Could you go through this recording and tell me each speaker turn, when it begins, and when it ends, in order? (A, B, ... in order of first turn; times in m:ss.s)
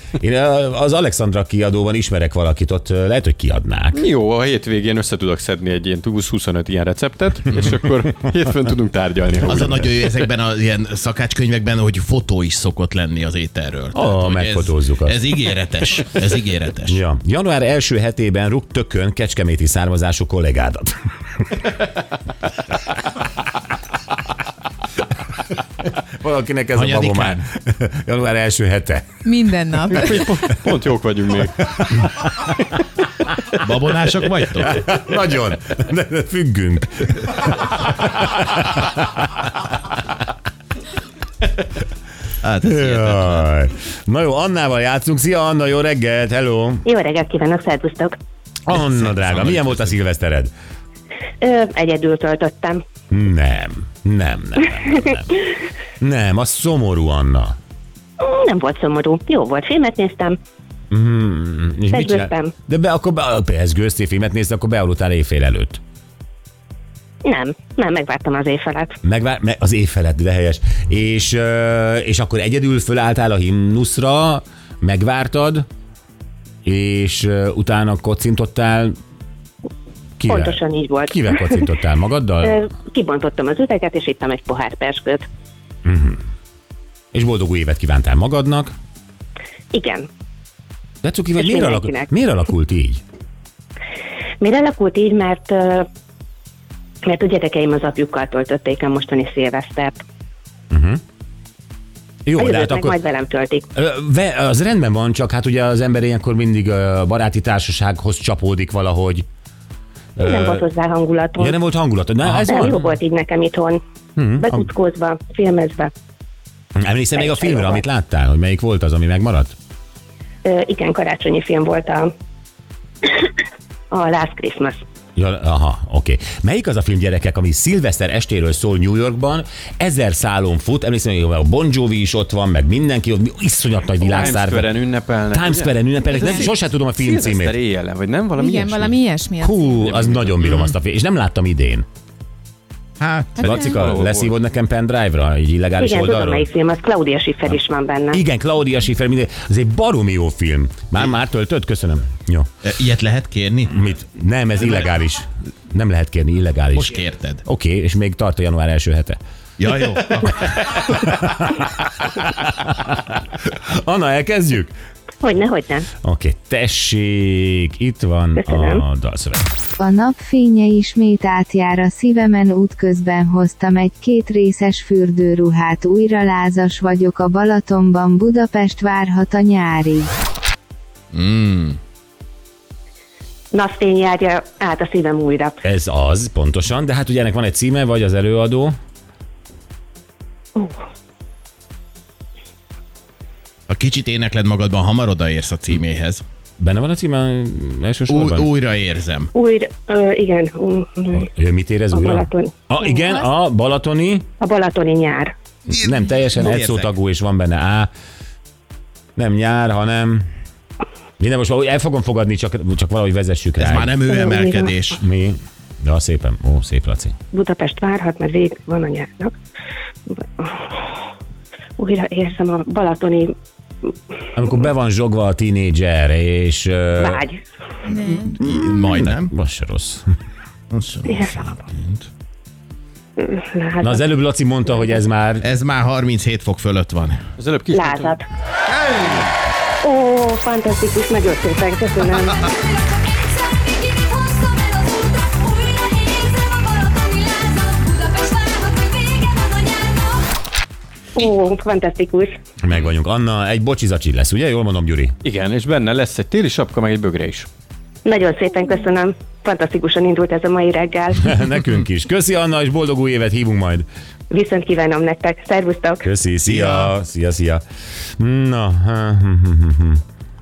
0:00.2-0:04.0 A
0:03.9-0:10.0 B
0:09.5-0:17.0 C
0:13.9-0:15.2 A
0:16.9-0:21.0 A
0:26.0-0:29.1 A
0:26.7-0:27.4 C
0:29.2-0:30.5 D
0:29.9-0:31.6 B
0:31.7-0:32.5 A
0:33.6-0:34.8 C
0:34.6-0:39.2 A
0:42.4-0:43.4 C
0:42.6-0:46.8 A
0:46.8-0:48.1 E
0:48.7-0:50.5 A
0:48.7-0:50.0 C
0:51.4-0:52.8 E
0:53.1-0:55.4 A
0:56.0-0:57.6 A
0:58.2-1:00.4 E
1:00.9-1:05.8 A
1:01.9-1:02.5 E
1:07.2-1:09.0 E
1:09.0-1:15.6 A
1:16.6-1:18.9 A
1:20.2-1:22.6 A
1:20.3-1:21.6 E
1:22.4-1:25.2 E
1:25.8-1:26.2 A
1:27.1-1:28.7 A
1:29.7-1:30.1 E
1:31.0-1:33.0 A
1:31.4-1:32.1 E
1:34.4-1:35.9 E
1:37.0-1:40.0 E
1:40.7-1:41.0 A
1:42.2-1:43.0 A
1:42.4-1:43.7 E
1:43.7-1:49.2 A
1:50.2-1:50.6 A
1:50.2-1:51.6 E
1:51.4-1:52.8 A
1:52.5-1:53.8 E
1:54.2-1:54.6 A
1:54.4-1:55.9 E
1:56.8-1:59.6 A
1:57.2-1:57.8 E
2:00.4-2:02.1 E
2:03.9-2:04.8 E
2:05.2-2:14.7 A
2:14.0-2:19.0 B
2:15.3-2:17.6 A
2:18.4-2:19.9 D
2:19.4-2:21.8 A
2:19.9-2:20.6 B
2:23.0-2:23.5 C
2:23.4-2:24.3 B
2:23.4-2:26.5 A
2:25.8-2:28.2 E
2:28.1-2:32.5 A
2:32.6-2:33.7 C
2:33.7-2:39.2 A
2:36.7-2:37.4 C
2:39.6-2:40.6 C
2:40.5-2:44.7 A
2:45.2-2:45.9 E
2:46.0-2:49.5 A
2:48.4-2:48.8 E
2:49.8-3:00.1 F
3:01.1-3:01.8 C
3:03.5-3:05.6 E
3:05.6-3:08.7 A
3:13.7-3:16.2 C
3:16.6-3:18.5 A
3:18.1-3:19.3 C
3:19.3-3:21.3 E
3:21.2-3:24.2 A
3:21.9-3:23.2 E
3:24.4-3:25.3 E
3:25.7-3:26.9 C
3:25.8-3:27.9 A
3:29.2-3:30.3 A
3:31.2-3:33.9 A
3:33.6-3:35.0 C
3:34.1-3:34.7 E
3:35.0-3:37.1 A
3:37.3-3:39.3 E
3:40.1-3:40.8 E
3:41.8-3:43.3 E
3:44.3-3:47.2 A
3:47.0-3:47.4 E
3:47.8-3:48.3 D
3:47.9-3:49.3 C
3:48.5-3:50.0 A
3:50.7-3:52.1 C
3:53.2-3:54.0 E
3:53.8-3:55.4 A
3:55.4-3:57.2 C
3:57.4-3:58.1 B
3:57.7-3:58.2 E
3:59.8-4:02.5 E
4:11.1-4:12.3 E
4:12.6-4:15.1 A
4:15.2-4:17.5 B
4:18.0-4:21.3 E
4:21.2-4:23.9 A
4:24.3-4:26.0 E
4:26.0-4:27.6 A
4:26.4-4:26.9 C
4:28.2-4:30.0 A